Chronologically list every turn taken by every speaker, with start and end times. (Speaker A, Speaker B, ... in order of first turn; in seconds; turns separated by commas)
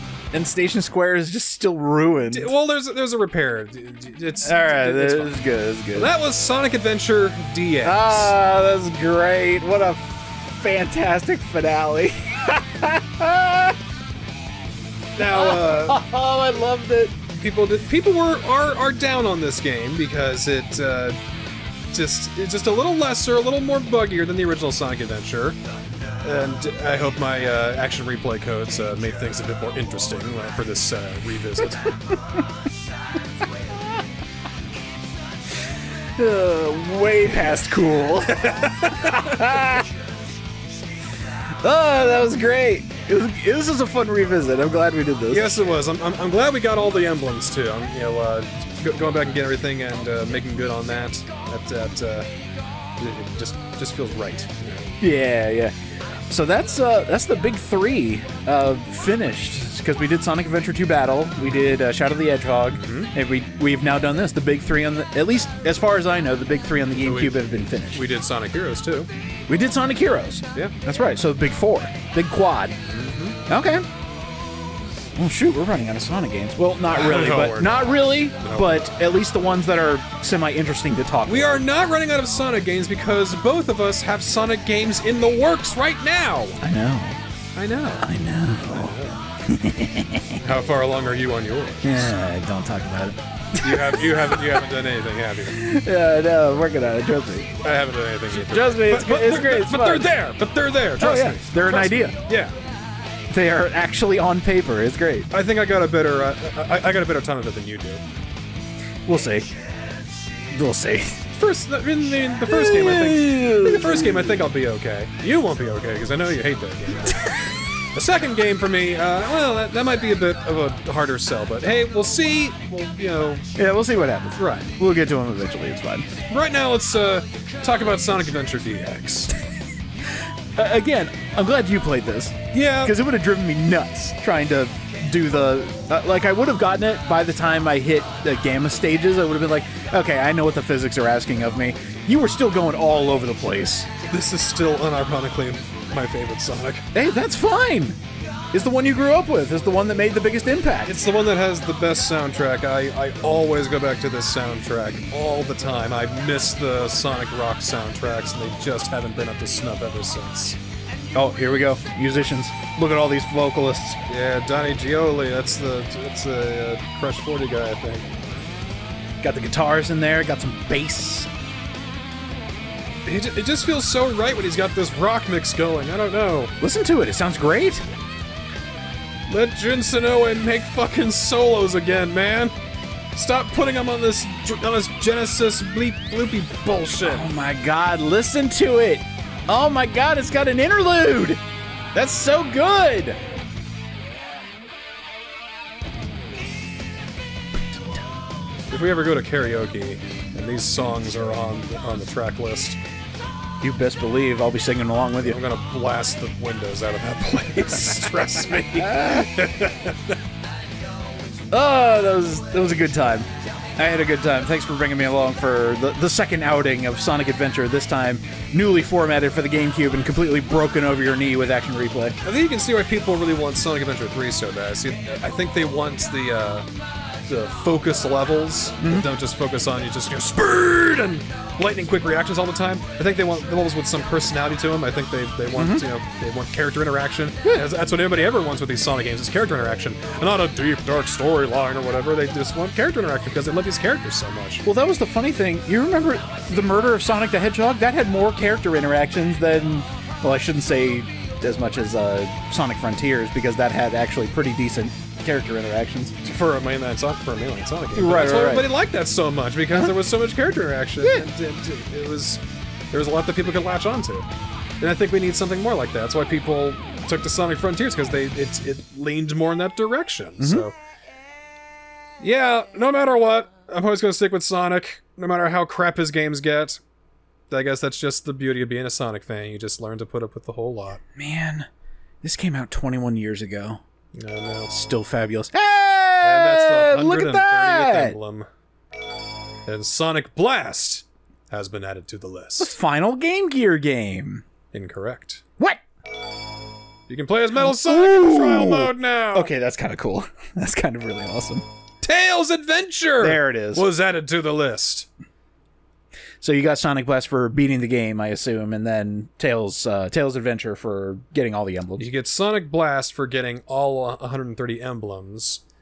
Speaker A: 0.3-2.5, Speaker B: 2.3-5.3, Speaker A: 4.4-6.1, Speaker B: 5.9-8.3, Speaker A: 7.8-13.8, Speaker B: 15.2-16.0, Speaker A: 15.2-17.2, Speaker B: 17.4-21.2, Speaker B: 21.9-25.6, Speaker B: 26.2-31.9, Speaker A: 31.6-32.4, Speaker A: 36.2-39.9, Speaker B: 38.3-39.2, Speaker A: 41.6-45.5, Speaker B: 45.3-52.3, Speaker B: 53.0-54.9, Speaker A: 55.0-55.7, Speaker A: 56.3-68.0, Speaker B: 62.8-63.1, Speaker B: 67.0-69.1, Speaker A: 69.5-72.8, Speaker B: 72.9-73.4, Speaker A: 73.5-73.8, Speaker A: 75.2-81.6, Speaker B: 76.9-78.9, Speaker B: 81.3-86.6, Speaker A: 86.6-87.2, Speaker B: 87.5-89.2, Speaker A: 88.0-90.4, Speaker B: 90.4-92.1, Speaker A: 91.8-94.6, Speaker B: 93.6-95.6, Speaker A: 95.5-97.6, Speaker B: 97.6-102.5, Speaker A: 98.3-100.1, Speaker A: 101.0-102.1, Speaker A: 103.3-105.3, Speaker B: 105.3-108.0, Speaker A: 109.0-109.5, Speaker A: 110.5-111.2, Speaker B: 111.3-123.5, Speaker A: 112.4-114.4, Speaker A: 123.5-126.1, Speaker B: 124.4-124.7, Speaker B: 126.3-129.3, Speaker A: 130.6-143.9, Speaker B: 132.5-132.9, Speaker B: 144.1-146.8, Speaker A: 146.9-148.0, Speaker A: 148.5-151.0, Speaker B: 150.8-160.6, Speaker A: 161.1-164.0, Speaker B: 164.1-168.4, Speaker A: 169.2-171.3, Speaker B: 173.0-176.5, Speaker A: 176.6-177.8, Speaker B: 179.3-182.5, Speaker B: 183.1-187.3, Speaker A: 187.0-191.4, Speaker A: 191.9-193.2, Speaker A: 197.5-198.1, Speaker B: 198.7-202.8, Speaker A: 203.6-205.4, Speaker B: 205.2-210.2, Speaker A: 208.5-209.3, Speaker A: 211.5-222.2, Speaker B: 222.2-226.7, Speaker B: 227.2-244.6, Speaker A: 228.8-229.1, Speaker A: 235.5-235.8, Speaker A: 244.6-256.3, Speaker B: 256.2-264.3, Speaker A: 257.9-258.7, Speaker A: 261.0-261.3, Speaker B: 264.8-270.7, Speaker A: 270.4-270.7, Speaker B: 272.2-276.8, Speaker B: 277.5-281.0, Speaker A: 281.1-281.7, Speaker A: 282.2-283.8, Speaker B: 284.1-284.7, Speaker A: 284.7-288.2, Speaker B: 286.2-288.5, Speaker B: 289.6-292.7, Speaker A: 292.6-294.4, Speaker B: 294.7-295.4, Speaker B: 297.1-299.5, Speaker A: 297.6-301.6, Speaker B: 302.0-305.1, Speaker A: 303.2-303.9, Speaker A: 306.4-312.1, Speaker B: 312.0-315.6